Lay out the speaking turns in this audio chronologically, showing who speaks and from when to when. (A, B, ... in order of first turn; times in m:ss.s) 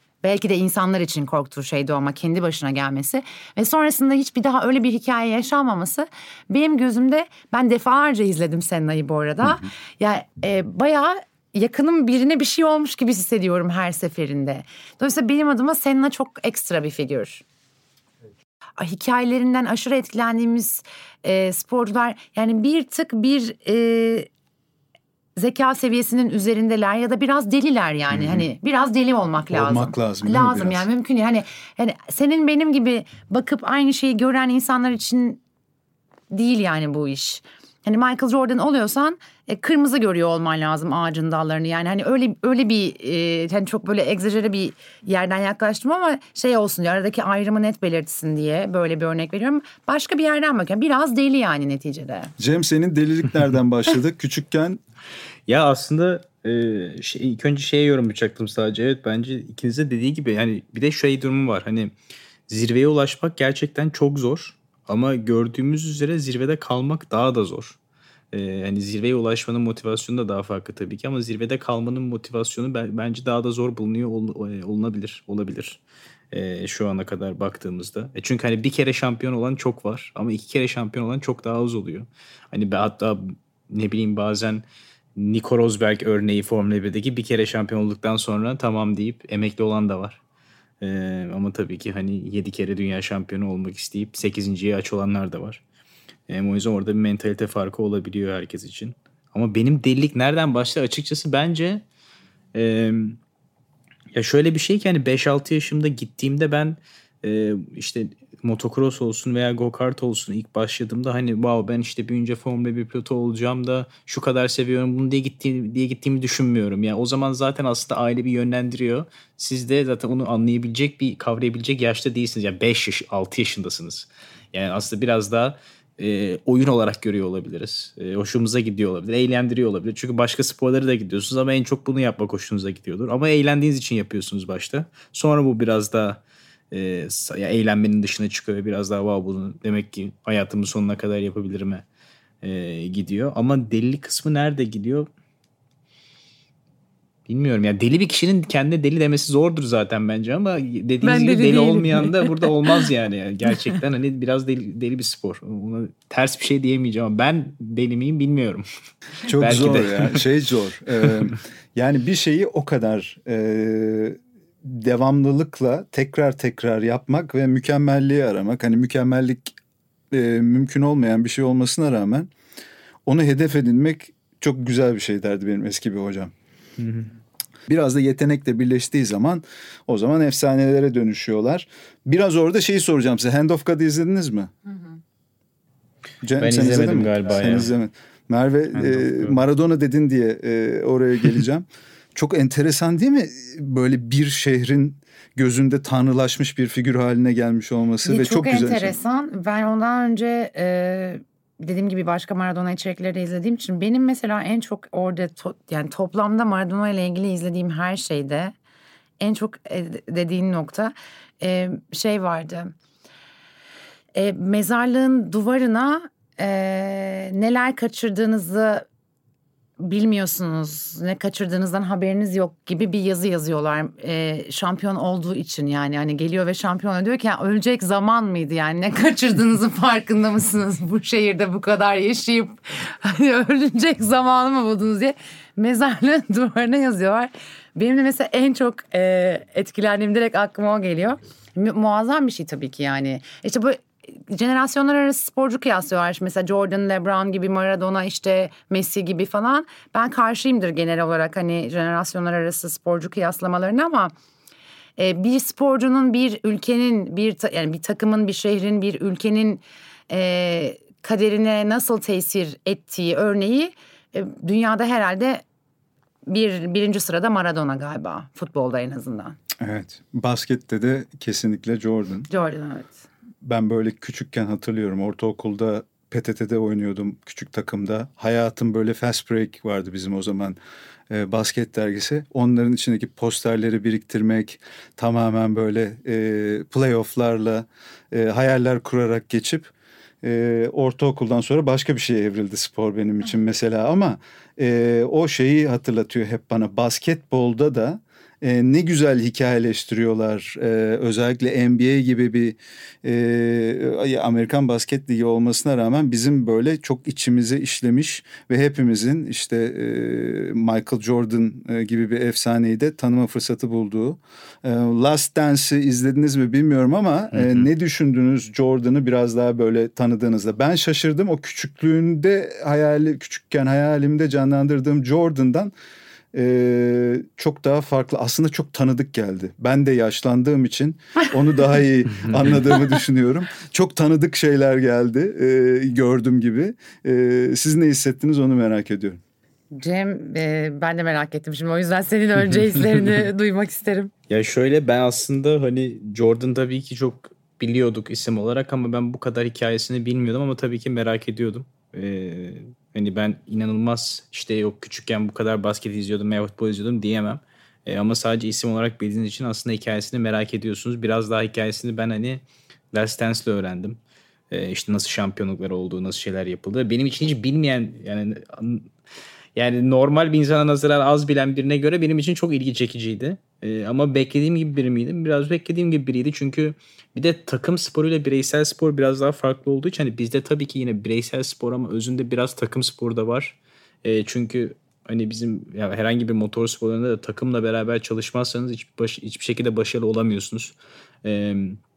0:00.2-0:17.4 A
0:18.8-0:24.3 A
0:25.4-0:35.4 A
0:28.1-0:28.4 B
0:29.5-0:30.9 B
0:36.3-0:52.3 A
0:52.4-0:54.8 B
0:55.5-1:01.9 C
1:02.5-1:07.8 C
1:08.3-1:15.8 C
1:16.3-1:24.6 C
1:25.2-1:30.2 C
1:30.8-1:35.6 C
1:36.3-1:41.8 C
1:42.5-1:43.2 C
1:44.1-2:21.8 C
2:22.4-2:25.1 C
2:27.3-2:38.6 C
2:31.0-2:32.9 A
2:39.2-2:40.2 C
2:39.2-2:49.5 B
2:50.1-2:52.3 B
2:53.0-2:56.3 B
2:56.8-2:57.1 C
2:57.7-3:04.5 B
3:06.2-3:19.0 B
3:06.4-3:07.7 C
3:08.7-3:09.4 C
3:18.0-3:28.5 A
3:29.2-3:32.7 A
3:34.1-3:38.8 A
3:39.8-4:14.1 A
4:15.0-4:25.4 A
4:26.3-4:29.4 A
4:29.6-4:32.3 B
4:32.3-4:33.0 A
4:33.4-4:40.6 B
4:41.1-5:25.7 B
5:17.3-5:17.7 C
5:26.3-5:39.2 B
5:39.7-5:44.1 A
5:44.3-6:04.0 C
6:04.5-6:08.9 C
6:09.6-6:31.8 C